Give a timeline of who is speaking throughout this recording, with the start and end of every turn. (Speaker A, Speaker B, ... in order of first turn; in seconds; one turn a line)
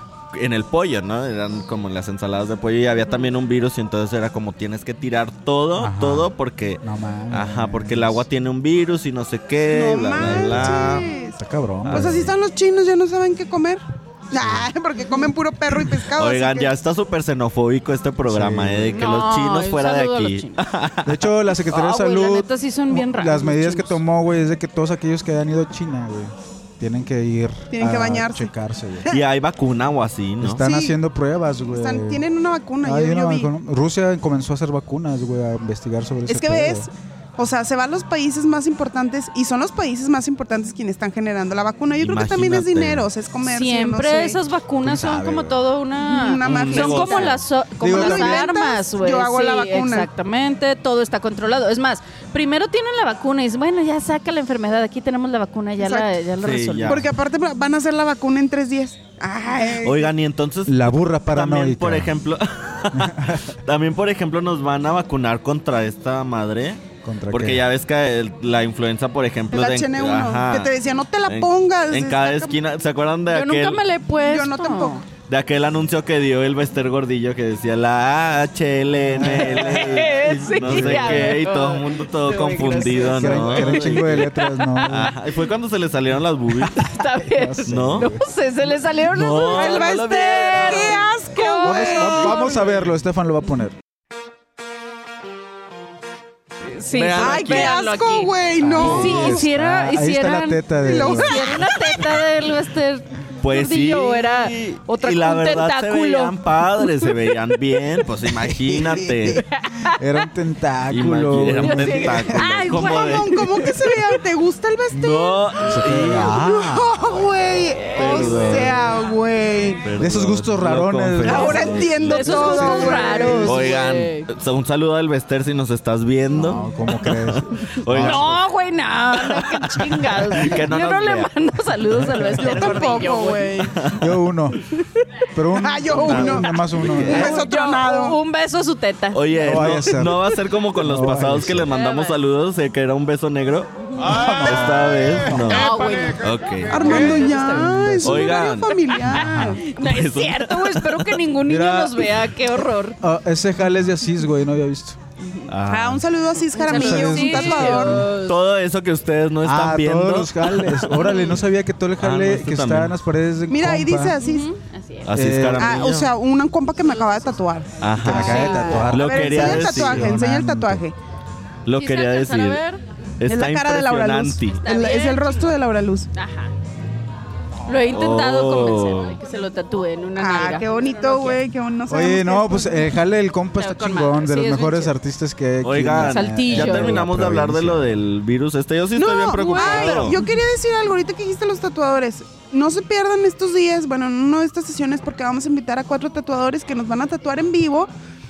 Speaker A: 0.3-11.1
Speaker B: 5.8-8.2
Speaker C: 9.6-16.7
Speaker B: 10.2-12.3
Speaker A: 11.8-12.3
Speaker B: 14.4-14.7
Speaker A: 16.1-21.3
Speaker B: 18.2-19.1
Speaker D: 18.9-20.6
Speaker B: 21.1-29.1
Speaker D: 21.7-24.0
Speaker C: 27.7-28.5
Speaker A: 29.1-30.6
Speaker B: 30.4-32.2
Speaker C: 30.6-31.0
Speaker C: 31.7-33.5
Speaker B: 32.8-36.9
Speaker C: 36.3-44.4
Speaker A: 42.0-43.1
Speaker D: 43.5-57.0
Speaker B: 44.8-45.7
Speaker C: 46.0-50.1
Speaker A: 46.4-47.4
Speaker B: 47.8-48.5
Speaker C: 55.8-56.1
Speaker A: 56.4-57.1
Speaker C: 56.9-60.1
Speaker A: 59.8-70.7
Speaker B: 60.7-62.1
Speaker B: 62.9-63.6
Speaker B: 67.0-67.7
Speaker C: 69.5-72.6
Speaker A: 71.3-73.8
Speaker D: 73.3-75.0
Speaker C: 74.2-75.0
Speaker A: 75.3-86.9
Speaker B: 79.1-81.3
Speaker D: 79.2-84.9
Speaker B: 83.1-85.2
Speaker D: 86.8-92.7
Speaker B: 87.0-88.3
Speaker A: 87.7-88.1
Speaker A: 89.0-91.1
Speaker C: 89.4-92.7
Speaker B: 91.6-93.8
Speaker D: 96.7-107.2
Speaker A: 96.9-97.9
Speaker C: 97.2-99.5
Speaker B: 98.6-101.6
Speaker A: 98.8-99.2
Speaker C: 100.8-102.1
Speaker A: 103.4-109.4
Speaker C: 108.7-109.4
Speaker D: 109.4-110.0
Speaker B: 109.8-112.5
Speaker A: 110.9-113.8
Speaker D: 111.6-113.9
Speaker C: 112.7-119.8
Speaker A: 114.9-116.4
Speaker B: 115.7-117.0
Speaker A: 117.9-118.8
Speaker D: 118.0-118.3
Speaker B: 118.3-118.8
Speaker A: 119.8-128.4
Speaker B: 120.0-123.6
Speaker C: 121.2-123.7
Speaker D: 121.5-124.3
Speaker B: 126.3-128.3
Speaker D: 127.9-133.7
Speaker A: 129.1-131.3
Speaker B: 131.9-132.3
Speaker C: 132.3-133.8
Speaker A: 132.4-132.9
Speaker A: 133.7-134.1
Speaker B: 134.0-134.6
Speaker B: 135.3-137.4
Speaker C: 135.6-138.2
Speaker A: 135.9-137.3
Speaker D: 137.1-139.8
Speaker A: 139.1-147.3
Speaker B: 139.4-141.7
Speaker D: 141.7-142.2
Speaker D: 143.9-144.3
Speaker B: 144.1-145.6
Speaker D: 145.4-147.7
Speaker C: 146.7-149.6
Speaker B: 146.9-148.4
Speaker A: 148.0-151.2
Speaker B: 149.1-149.6
Speaker D: 149.4-153.0
Speaker B: 151.4-152.1
Speaker B: 153.0-155.0
Speaker D: 155.2-155.5
Speaker A: 155.5-156.0
Speaker C: 155.7-158.1
Speaker D: 156.5-158.3
Speaker B: 156.7-158.1
Speaker A: 158.2-161.2
Speaker B: 159.4-164.2
Speaker D: 160.9-161.4
Speaker A: 162.0-162.9
Speaker C: 163.5-164.5
Speaker D: 164.2-165.1
Speaker A: 165.1-166.1
Speaker B: 165.1-165.9
Speaker C: 165.6-171.0
Speaker A: 167.8-170.1
Speaker B: 168.0-170.8
Speaker D: 168.1-168.9
Speaker A: 171.7-172.6
Speaker D: 171.8-172.8
Speaker A: 173.2-174.6
Speaker C: 173.3-176.1
Speaker D: 174.6-175.5
Speaker D: 176.1-176.5
Speaker D: 177.7-181.4
Speaker A: 177.9-179.2
Speaker C: 180.2-182.9
Speaker B: 181.9-187.9
Speaker D: 183.6-184.9
Speaker A: 185.6-190.2
Speaker D: 186.0-187.0
Speaker C: 189.0-197.9
Speaker D: 189.4-190.2